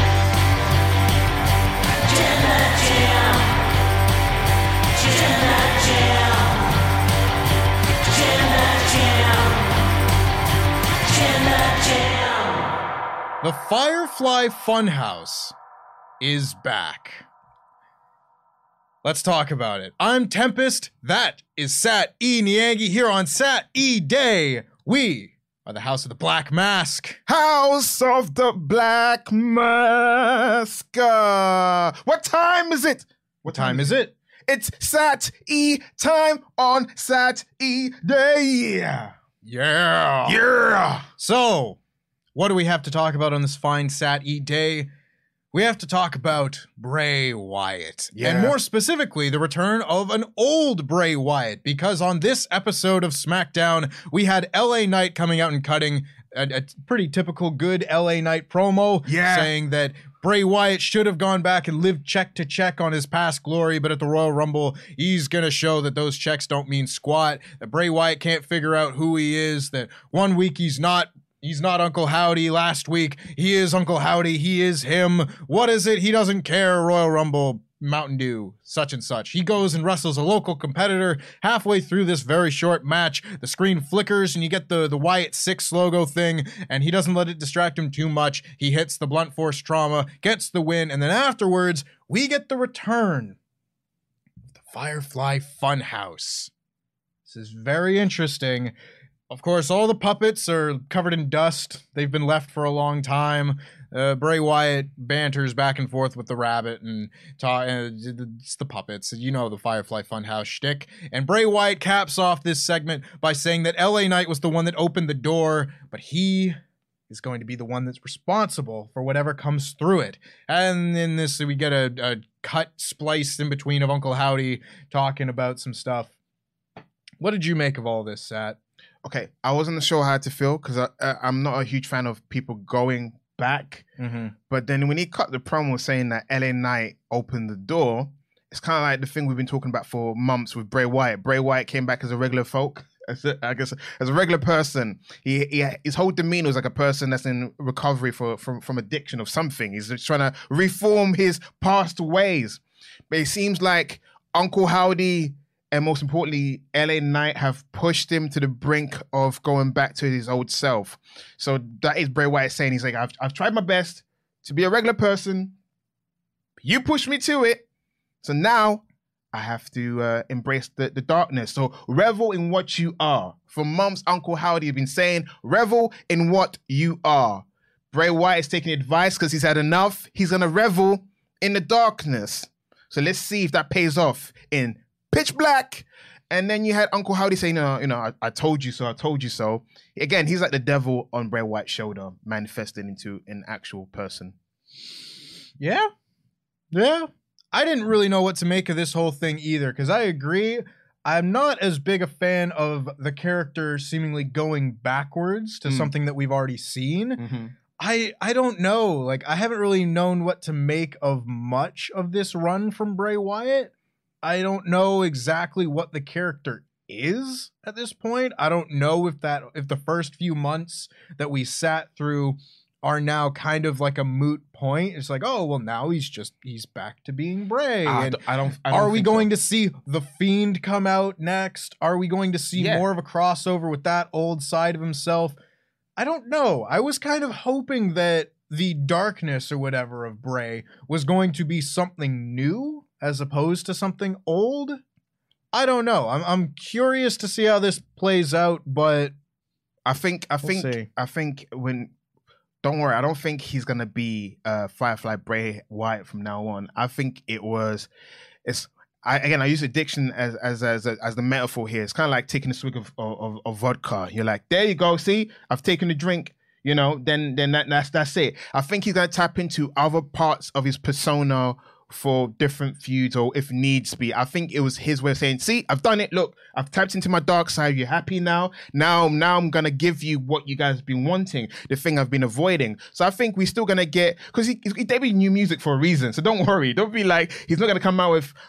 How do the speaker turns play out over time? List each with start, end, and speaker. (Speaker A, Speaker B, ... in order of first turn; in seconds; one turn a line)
Speaker A: 13.4-15.6
Speaker A: 16.2-17.2
Speaker A: 19.0-27.2
Speaker B: 27.3-39.1
Speaker A: 33.5-34.1
Speaker A: 39.4-40.4
Speaker B: 40.2-41.1
Speaker A: 41.2-41.8
Speaker A: 42.4-44.9
Speaker A: 45.5-93.4
Speaker B: 48.1-48.6
Speaker B: 59.1-59.5
Speaker A: 94.6-96.5
Speaker A: 97.3-98.7
Speaker A: 99.3-116.6
Speaker A: 117.1-126.1
Speaker A: 127.2-128.6
Speaker B: 129.0-133.9
Speaker A: 134.0-134.3
Speaker B: 134.5-165.5
Speaker B: 166.6-167.7
Speaker B: 168.2-194.3
Speaker A: 195.6-195.9
Speaker A: 196.7-207.2
Speaker B: 205.7-205.9
Speaker B: 207.2-207.5
Speaker A: 207.8-213.7
Speaker A: 214.2-235.4
Speaker B: 227.8-229.3
Speaker B: 232.6-232.8
Speaker A: 236.0-244.8
Speaker A: 245.5-249.1
Speaker B: 249.9-251.9
Speaker A: 250.4-250.9
Speaker B: 252.6-257.9
Speaker B: 258.4-288.3